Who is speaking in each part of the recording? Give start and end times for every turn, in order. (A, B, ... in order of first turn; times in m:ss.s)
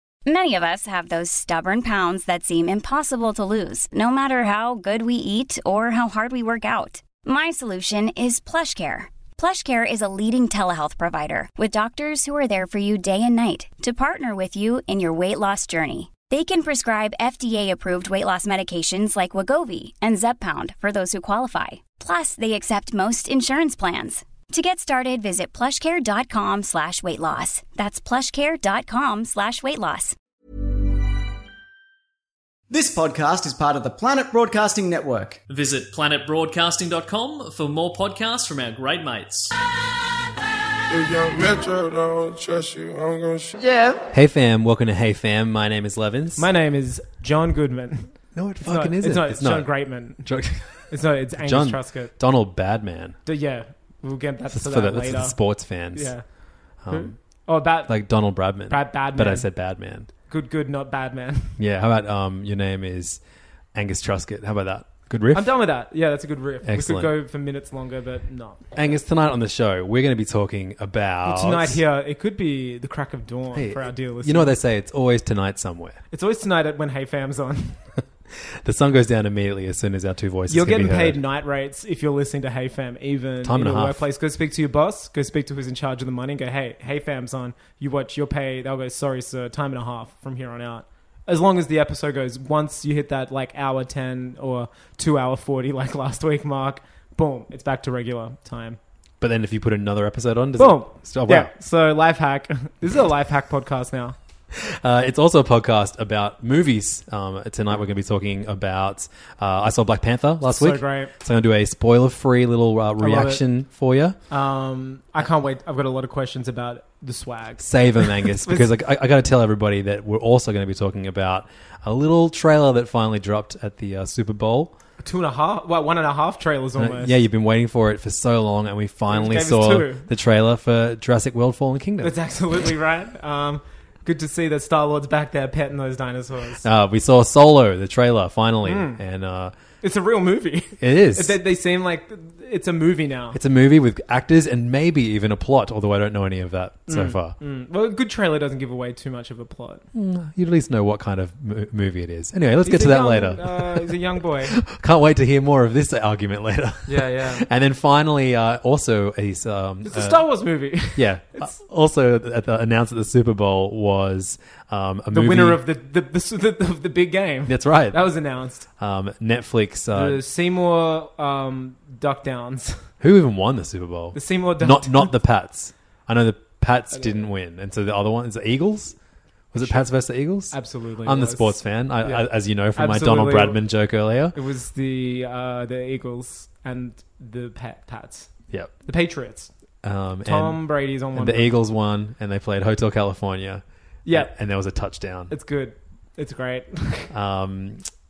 0:00.2-0:30.2 A
0:32.7-0:35.4 B
0:35.5-0:39.5 C
0:40.9-0:43.9 D
0:44.1-0:46.4 E
0:46.4-0:50.2 F
0:48.3-0:53.2 E
0:50.9-0:52.1 F
0:53.2-0:55.4 F
0:54.5-0:56.1 E
0:55.9-0:56.2 F
0:56.8-0:57.1 E
0:56.9-0:57.9 F
0:57.9-1:00.1 E
0:58.7-0:59.5 F
1:00.3-1:01.6 F
1:01.6-1:03.2 E
1:03.7-1:05.5 E
1:05.3-1:08.6 F
1:06.6-1:07.1 E
1:08.7-1:11.8 E
1:11.2-1:14.5 F
1:13.5-1:16.0 E
1:16.1-1:17.8 F
1:18.4-1:21.2 E
1:20.5-1:38.8 F
1:23.4-1:24.0 E
1:39.2-1:41.5 E
1:40.6-1:44.2 F
1:44.5-1:54.2 E
1:50.5-1:51.1 F
1:53.0-1:53.4 F
1:54.3-1:58.7 F
1:57.6-2:04.7 E
2:05.0-2:07.2 F
2:06.8-2:12.2 E
2:09.1-2:10.0 F
2:12.0-2:16.6 F
2:16.6-2:19.5 E
2:18.6-2:19.0 F
2:19.8-2:23.4 F
2:20.8-2:21.4 E
2:23.3-2:27.4 E
2:26.9-2:29.8 F
2:29.9-2:40.2 E
2:32.6-2:34.5 F
2:36.9-2:37.4 F
2:39.8-2:41.6 F
2:41.0-2:45.6 E
2:45.1-2:48.6 F
2:47.5-2:48.0 E
2:48.8-2:50.2 E
2:49.9-2:52.8 F
2:53.0-2:59.0 E
2:54.1-2:55.1 F
2:56.9-2:57.2 F
2:59.5-3:04.4 E
2:59.6-2:59.8 F
3:00.5-3:03.6 F
3:04.3-3:08.3 F
3:08.8-3:09.5 F
3:09.8-3:15.3 E
3:10.2-3:11.6 F
3:14.0-3:14.3 F
3:15.3-3:17.1 F
3:17.1-3:17.8 E